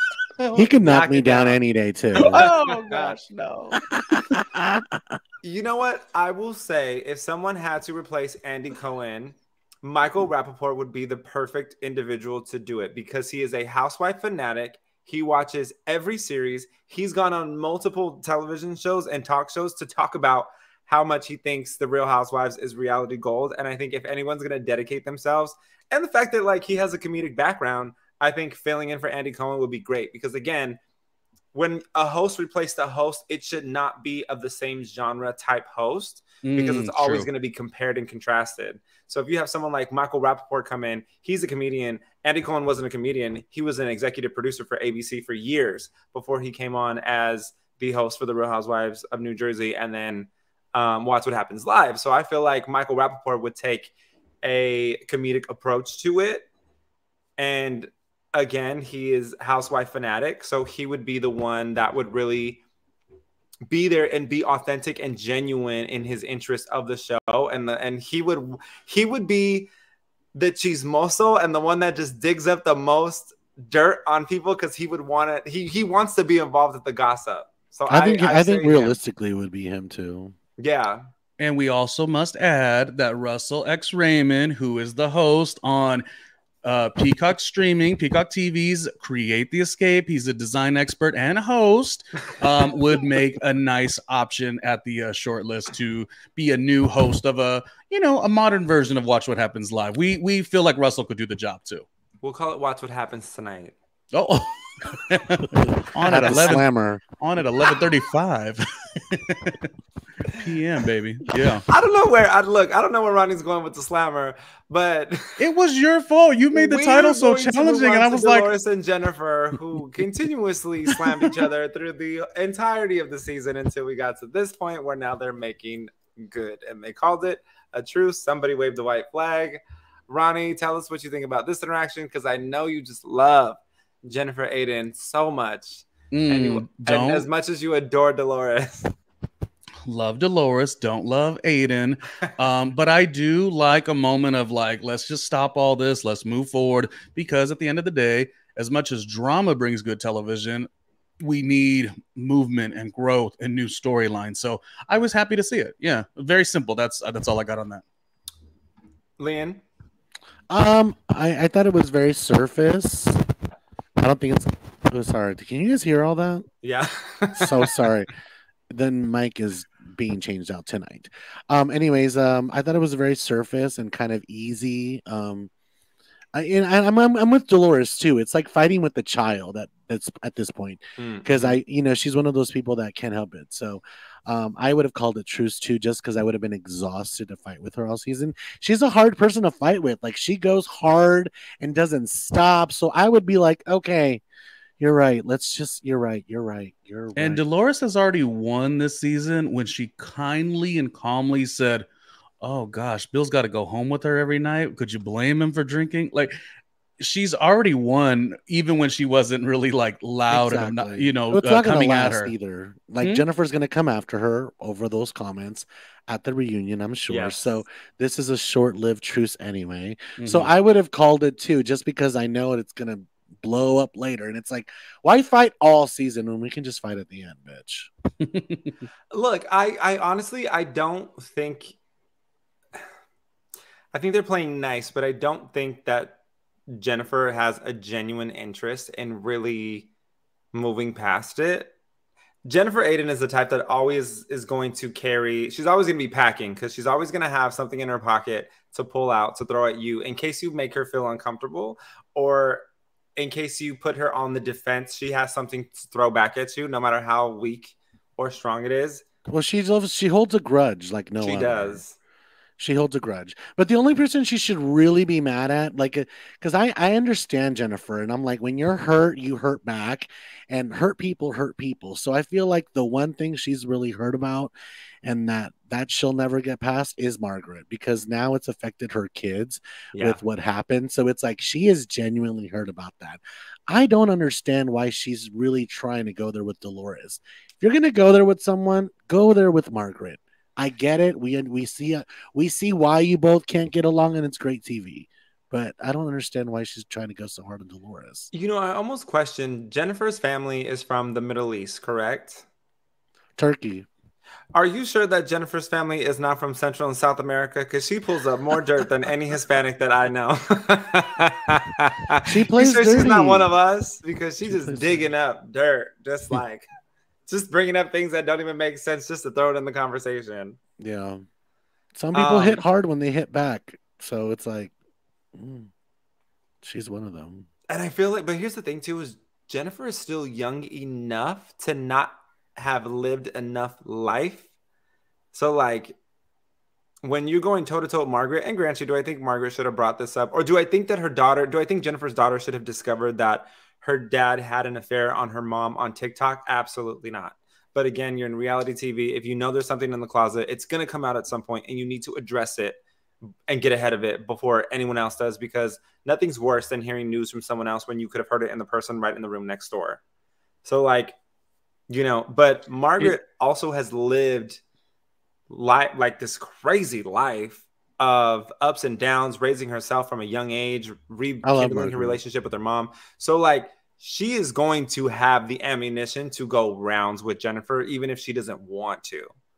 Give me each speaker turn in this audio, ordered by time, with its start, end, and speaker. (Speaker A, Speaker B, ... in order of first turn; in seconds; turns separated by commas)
Speaker A: 0.4-0.8, Speaker B: 0.6-2.4, Speaker C: 0.9-1.6, Speaker A: 2.2-3.8, Speaker C: 2.3-3.1, Speaker B: 3.8-5.2, Speaker C: 5.4-30.8, Speaker C: 31.5-53.9, Speaker A: 36.4-37.3, Speaker C: 54.4-56.5, Speaker C: 57.4-62.6, Speaker C: 63.7-69.7, Speaker C: 70.3-79.0, Speaker B: 77.9-80.3, Speaker C: 80.6-81.0, Speaker A: 81.4-86.0, Speaker A: 86.6-101.8, Speaker C: 102.2-103.7, Speaker A: 104.1-106.7, Speaker B: 106.0-107.0, Speaker C: 106.3-106.5, Speaker A: 107.2-109.7, Speaker A: 110.3-111.6, Speaker C: 111.7-115.4, Speaker A: 115.4-118.5, Speaker C: 116.5-138.9, Speaker A: 136.1-137.3, Speaker A: 139.8-150.7, Speaker A: 151.2-157.8, Speaker C: 159.2-159.6, Speaker B: 160.5-163.2, Speaker B: 164.0-166.5, Speaker C: 166.6-167.6, Speaker B: 167.4-168.1, Speaker B: 168.7-175.5, Speaker B: 176.3-194.2, Speaker C: 181.0-181.6, Speaker B: 194.8-197.4, Speaker A: 197.2-201.9, Speaker A: 202.4-206.3, Speaker A: 207.0-212.3, Speaker B: 210.3-227.9, Speaker C: 217.1-217.6, Speaker A: 220.2-220.5, Speaker A: 228.2-228.8, Speaker C: 229.1-231.8, Speaker C: 233.9-236.2, Speaker C: 236.7-239.9, Speaker C: 240.5-241.7, Speaker C: 242.4-259.0, Speaker B: 259.3-261.8, Speaker C: 261.2-261.9, Speaker B: 262.6-298.3, Speaker C: 279.9-280.2, Speaker C: 298.3-302.4, Speaker B: 303.4-303.9, Speaker C: 304.5-316.7, Speaker B: 312.3-313.5, Speaker B: 314.4-315.1, Speaker C: 317.3-320.6, Speaker B: 320.8-321.2, Speaker B: 321.9-324.7, Speaker C: 322.1-322.6, Speaker B: 325.3-325.7, Speaker B: 326.6-327.5, Speaker C: 327.7-334.4, Speaker C: 335.3-335.9, Speaker C: 337.0-352.8, Speaker C: 353.5-360.0, Speaker C: 360.6-361.1, Speaker C: 361.9-364.6, Speaker C: 365.5-379.3, Speaker B: 371.4-372.2